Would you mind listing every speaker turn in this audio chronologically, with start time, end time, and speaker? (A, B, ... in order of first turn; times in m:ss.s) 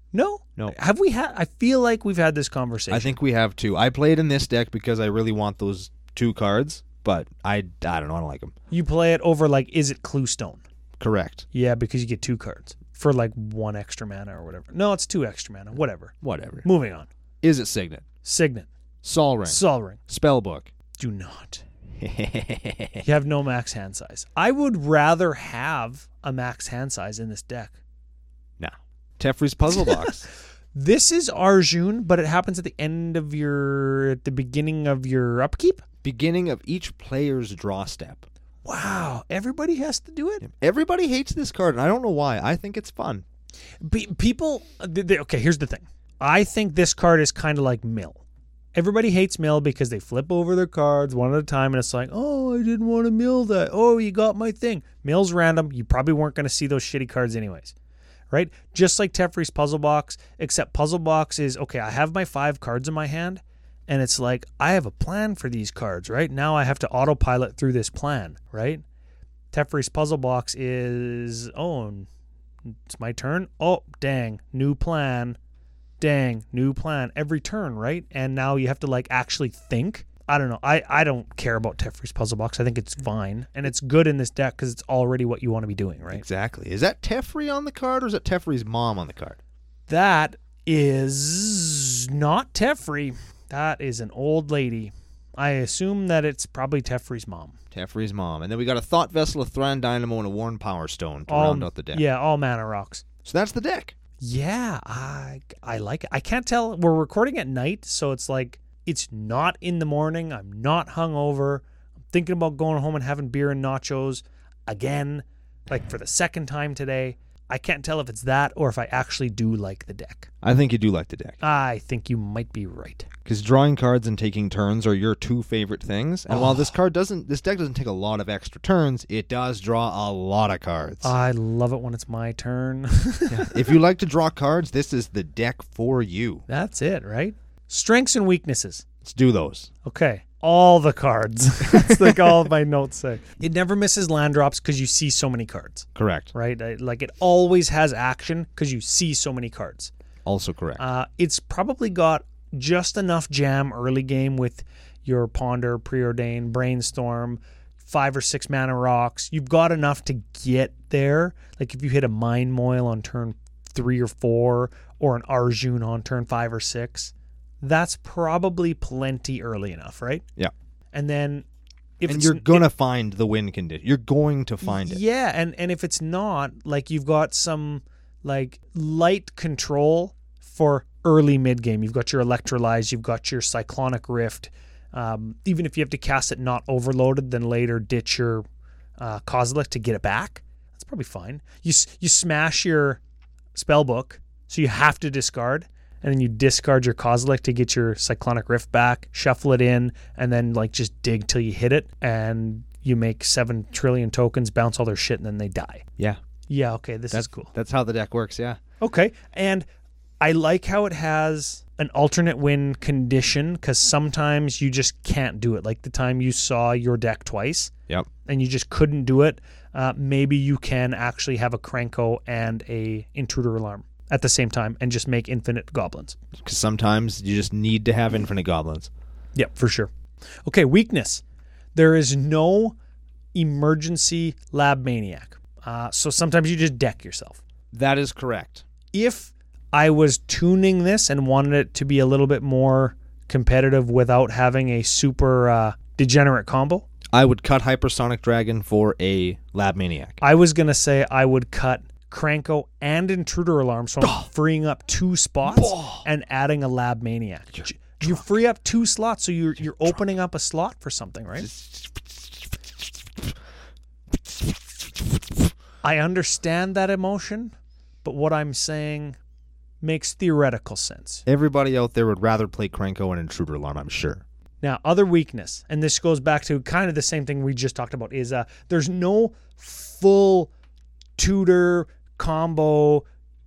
0:00.1-0:03.2 A
0:02.9-0:08.5 B
0:08.7-0:10.6 A
0:11.0-0:11.4 B
0:11.5-0:17.1 A
0:16.2-0:16.6 B
0:17.4-0:18.0 B
0:18.2-0:18.7 A
0:19.0-0:20.7 B
0:19.4-0:20.0 A
0:21.0-0:21.6 A
0:22.0-0:23.0 B
0:23.0-0:27.7 A
0:28.6-0:30.2 B
0:29.8-0:30.1 A
0:30.7-0:35.8 A
0:36.0-0:38.3 B
0:38.6-0:40.4 A
0:40.4-0:43.2 B
0:43.8-0:48.2 A
0:48.8-0:57.7 A
0:58.3-1:08.8 A
1:09.5-1:12.1 A
1:12.9-1:15.4 A
1:16.0-1:26.2 A
1:26.1-1:29.4 B
1:29.9-1:37.6 A
1:37.7-1:42.0 B
1:41.3-1:43.0 A
1:43.2-1:44.0 B
1:44.2-2:00.3 A
2:00.4-2:01.4 B
2:01.4-2:03.1 A
2:03.2-2:11.1 B
2:06.3-2:06.7 A
2:11.0-2:13.8 A
2:13.3-2:16.4 B
2:16.5-2:18.8 A
2:19.0-2:19.7 B
2:19.8-2:29.9 A
2:21.7-2:22.3 B
2:26.0-2:26.3 B
2:30.2-2:30.8 B
2:30.8-2:50.2 A
2:50.9-2:51.5 A
2:52.0-2:52.6 A
2:52.1-2:55.0 B
2:54.6-3:08.4 A
3:09.0-3:13.0 A
3:13.6-3:25.8 A
3:26.5-3:27.5 A
3:27.1-3:28.6 B
3:28.8-3:29.7 A
3:30.2-3:37.7 A
3:38.3-3:46.2 A
3:46.4-3:48.9 B
3:49.4-3:49.9 A
3:50.5-3:51.2 A
3:51.8-3:52.8 A
3:53.4-3:57.4 A
3:57.7-3:58.6 B
3:58.9-4:06.9 A
4:07.1-4:10.2 B
4:10.2-4:21.5 A
4:14.0-4:14.3 B
4:15.4-4:16.0 B
4:21.4-4:22.4 B
4:25.8-4:27.5 A
4:28.0-4:29.2 A
4:29.8-4:31.2 A
4:31.3-4:34.2 B
4:34.6-4:40.5 A
4:41.2-4:43.0 A